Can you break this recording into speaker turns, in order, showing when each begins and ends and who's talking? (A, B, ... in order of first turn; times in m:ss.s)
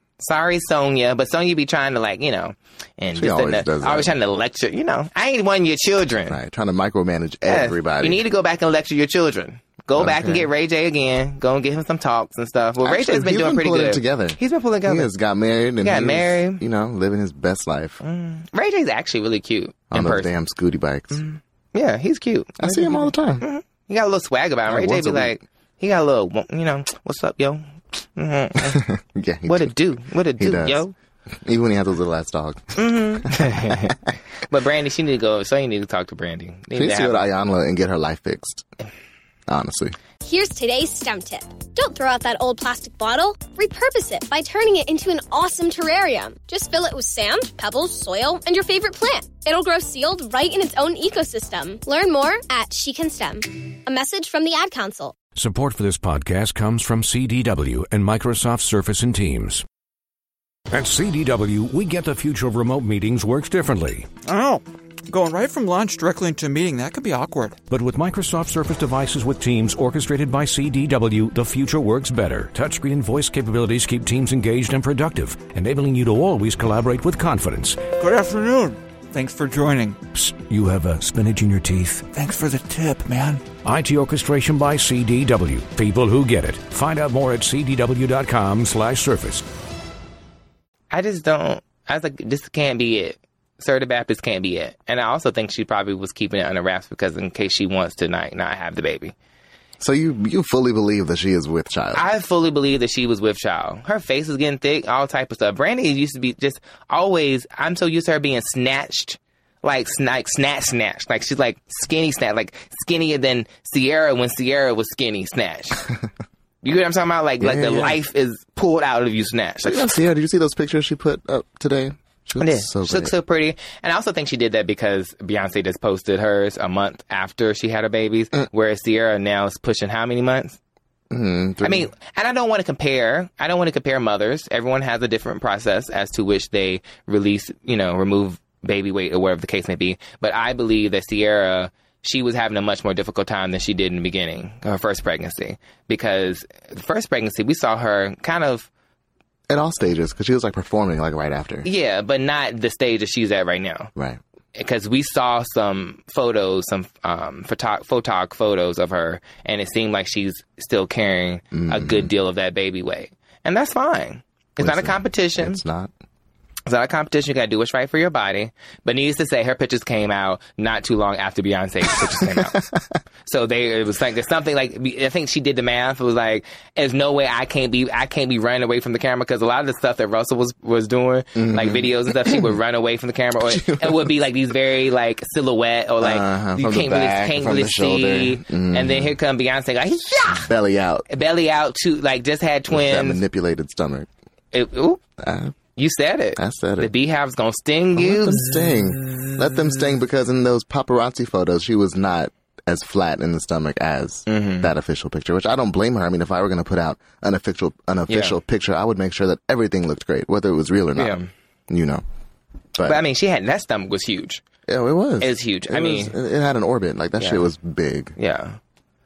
0:00.2-0:06.4 A
0:03.1-0:04.1 B
0:06.3-0:08.2 B
0:07.5-0:15.1 A
0:10.0-0:10.5 B
0:12.8-0:18.0 B
0:15.8-0:16.6 A
0:18.0-0:20.3 A
0:19.9-0:21.2 B
0:21.1-0:28.9 A
0:22.6-0:23.5 B
0:24.7-0:25.4 B
0:28.6-0:29.7 B
0:29.5-0:30.9 A
0:30.4-0:30.8 B
0:31.4-0:34.0 B
0:32.8-0:34.0 A
0:34.5-0:37.2 A
0:36.7-0:38.7 B
0:39.5-0:40.0 B
0:40.2-0:55.2 C
0:55.4-0:59.6 D
1:00.7-1:04.1 D
1:04.2-1:07.6 E
1:07.7-1:17.9 D
1:18.0-1:20.0 E
1:20.1-1:22.1 D
1:22.1-1:23.5 E
1:23.6-1:29.4 D
1:30.9-1:39.2 A
1:39.8-1:42.0 B
1:41.9-1:55.8 A
1:56.6-1:59.9 A
1:57.4-1:58.0 B
1:59.6-2:03.1 B
2:02.4-2:10.6 A
2:11.1-2:11.9 B
2:11.6-2:28.7 A
2:29.5-2:31.7 B
2:31.6-2:33.9 A
2:34.6-2:45.6 A
2:41.5-2:42.1 B
2:44.6-2:45.9 B
2:46.7-2:52.7 A
2:52.1-2:52.8 B
2:53.2-3:10.5 A
3:01.4-3:02.6 B
3:03.5-3:04.1 B
3:06.0-3:09.2 B
3:10.4-3:11.1 B
3:11.1-3:13.2 A
3:12.7-3:14.1 B
3:14.5-3:15.0 A
3:15.2-3:15.6 B
3:15.8-3:19.4 A
3:16.4-3:16.9 B
3:18.0-3:31.2 B
3:24.3-3:24.7 A
3:28.1-3:28.4 A
3:31.0-3:31.3 A
3:31.7-3:32.0 B
3:32.8-3:33.0 B
3:32.8-3:34.4 A
3:34.7-3:38.2 B
3:35.2-3:36.2 A
3:37.2-3:37.4 A
3:38.2-3:38.6 A